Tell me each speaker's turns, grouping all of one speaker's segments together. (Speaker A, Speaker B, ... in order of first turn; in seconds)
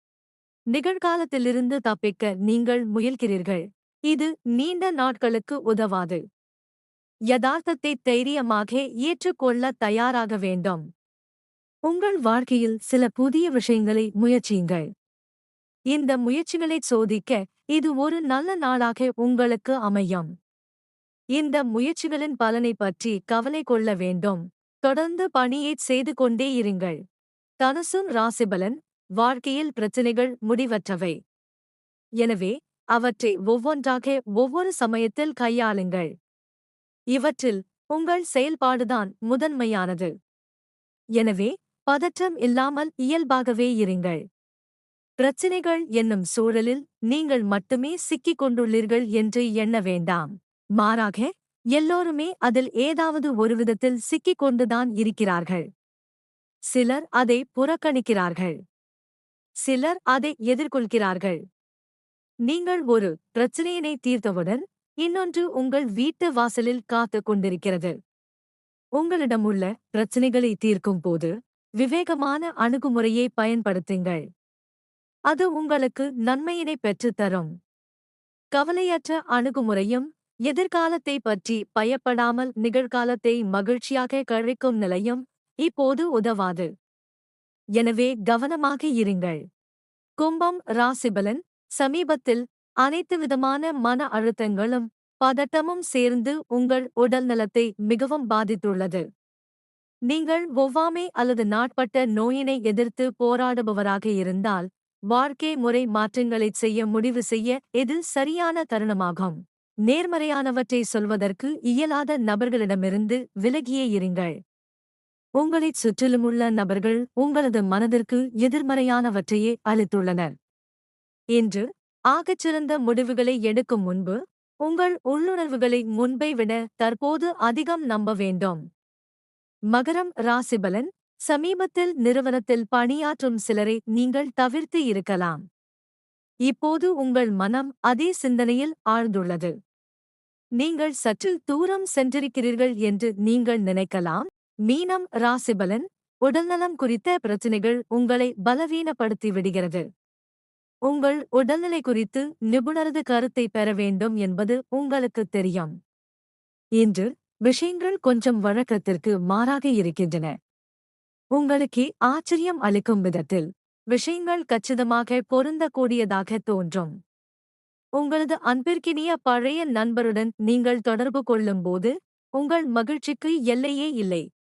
Speaker A: 0.7-6.2, 7.3-10.8, 11.9-14.9, 15.9-20.3, 21.4-27.0, 27.6-31.2, 32.2-36.1, 37.1-40.1, 41.2-44.2, 45.2-55.7, 56.7-58.6, 59.7-61.4, 62.5-68.0, 69.0-74.2, 75.3-77.5, 78.5-86.7, 87.8-89.4, 90.2-99.0, 100.1-114.4, 115.4-120.3, 121.3-128.6, 129.7-135.4, 136.5-139.5, 140.6-149.8, 150.9-155.7, 156.8-160.4, 161.4-166.9, 168.0-174.3